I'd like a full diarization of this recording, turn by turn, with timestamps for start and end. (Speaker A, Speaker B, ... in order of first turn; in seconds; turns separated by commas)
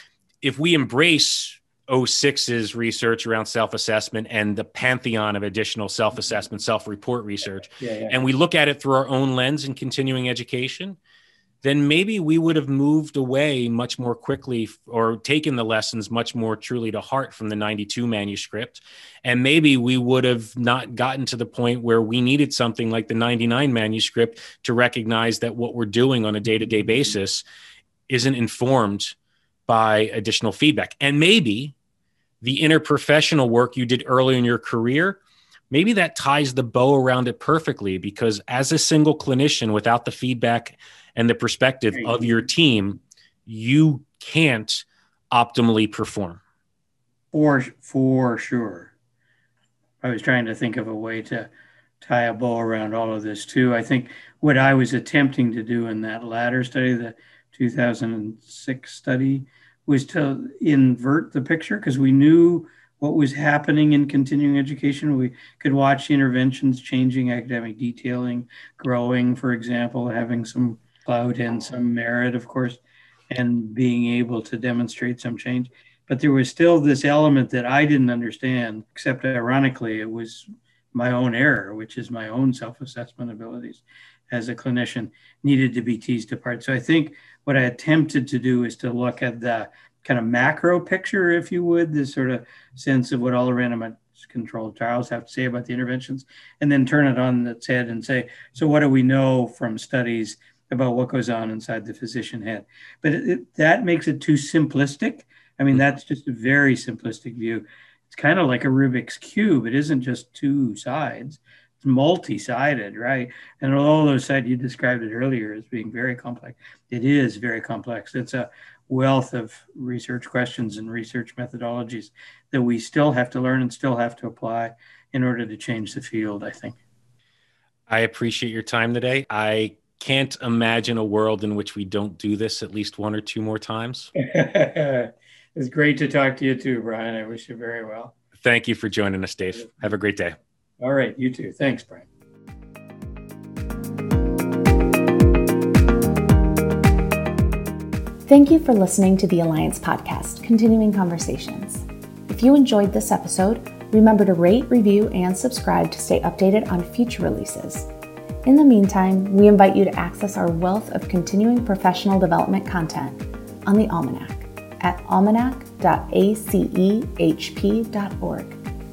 Speaker A: 0.4-11.0, Speaker B: 7.8-8.2, Speaker A: 11.6-27.4, Speaker A: 28.1-29.1, Speaker A: 29.7-31.7, Speaker A: 32.4-35.2, Speaker A: 35.7-46.4, Speaker B: 47.3-48.9, Speaker B: 50.0-126.8, Speaker A: 127.9-134.1, Speaker B: 134.2-138.1, Speaker A: 138.4-140.3, Speaker B: 140.8-142.1, Speaker C: 148.3-157.9, Speaker C: 158.4-168.6